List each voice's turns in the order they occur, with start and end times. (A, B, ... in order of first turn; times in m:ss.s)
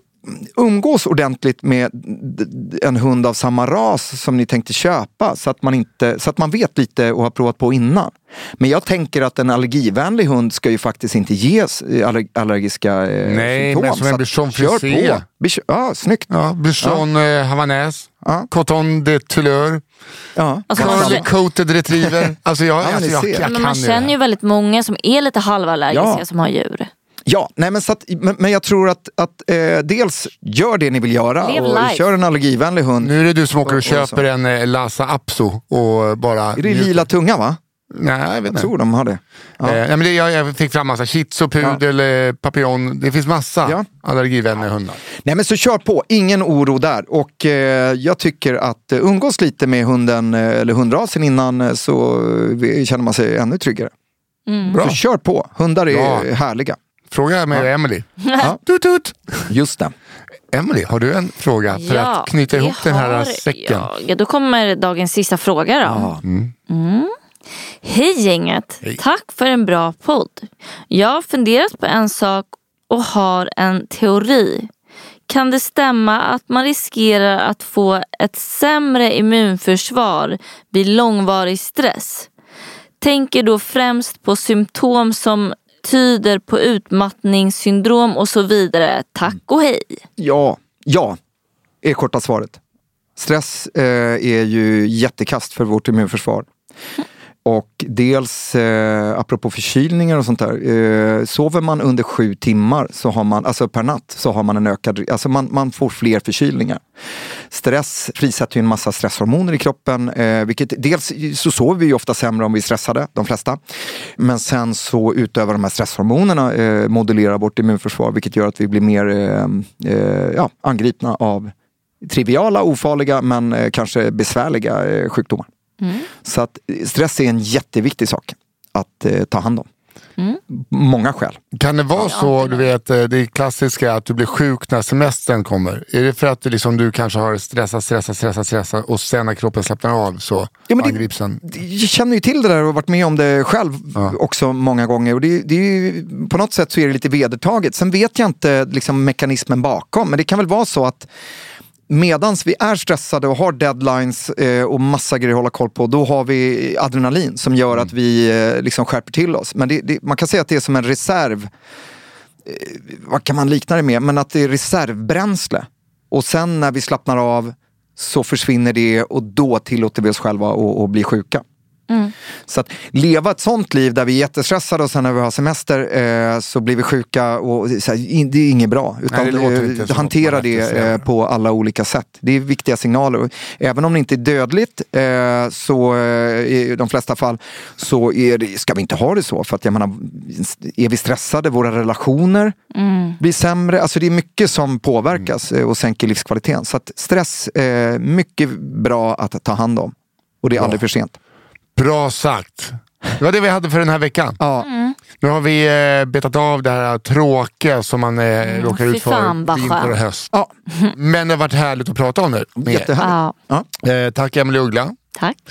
0:00.2-0:16.3 A
0:13.2-0:15.2 B
0:16.3-0:19.8 B
0:18.2-0:18.5 A
0:20.4-0:21.2 A
0:20.7-0:21.2 C
0:20.7-0:24.1 B
0:22.0-0:23.5 A
0:23.4-0:26.9 C
0:25.9-0:26.2 A
0:27.2-0:34.2 A
0:31.4-0:32.0 C
0:33.0-0:37.1 B
0:36.6-0:37.6 A
0:37.9-0:38.7 B
0:38.5-0:39.8 A
0:39.6-0:45.0 B
0:45.2-0:53.9 A
0:54.5-0:54.8 C
0:54.7-0:55.0 B
0:54.8-0:56.8 A
0:55.9-0:56.3 B
0:57.1-0:58.1 B
0:58.6-0:59.5 B
0:59.5-0:59.9 A
1:00.5-1:03.9 B
1:01.7-1:06.1 C
1:05.8-1:06.2 A
1:06.2-1:06.5 B
1:06.7-1:07.1 C
1:07.8-1:14.7 C
1:15.3-1:22.3 C
1:23.0-1:30.0 C
1:30.2-1:31.2 A
1:31.8-1:32.6 A
1:33.2-1:36.5 A
1:37.4-1:46.8 A
1:47.5-1:53.6 A
1:54.2-2:05.5 A
2:05.8-2:06.1 C
2:06.2-2:09.7 A
2:10.5-2:11.4 A
2:11.5-2:21.4 B
2:12.0-2:12.7 C
2:20.7-2:31.1 A
2:31.9-2:41.5 A
2:42.4-2:51.4 A
2:52.5-3:12.6 A
2:59.1-3:01.0 B
3:12.7-3:13.2 C
3:13.2-3:21.2 A
3:21.8-3:24.4 B
3:24.4-3:24.7 A
3:24.6-3:25.0 C
3:25.2-3:30.3 B
3:28.4-3:30.0 C
3:30.9-3:32.9 B
3:32.6-3:33.7 A
3:33.0-3:33.3 C
3:33.8-3:35.0 B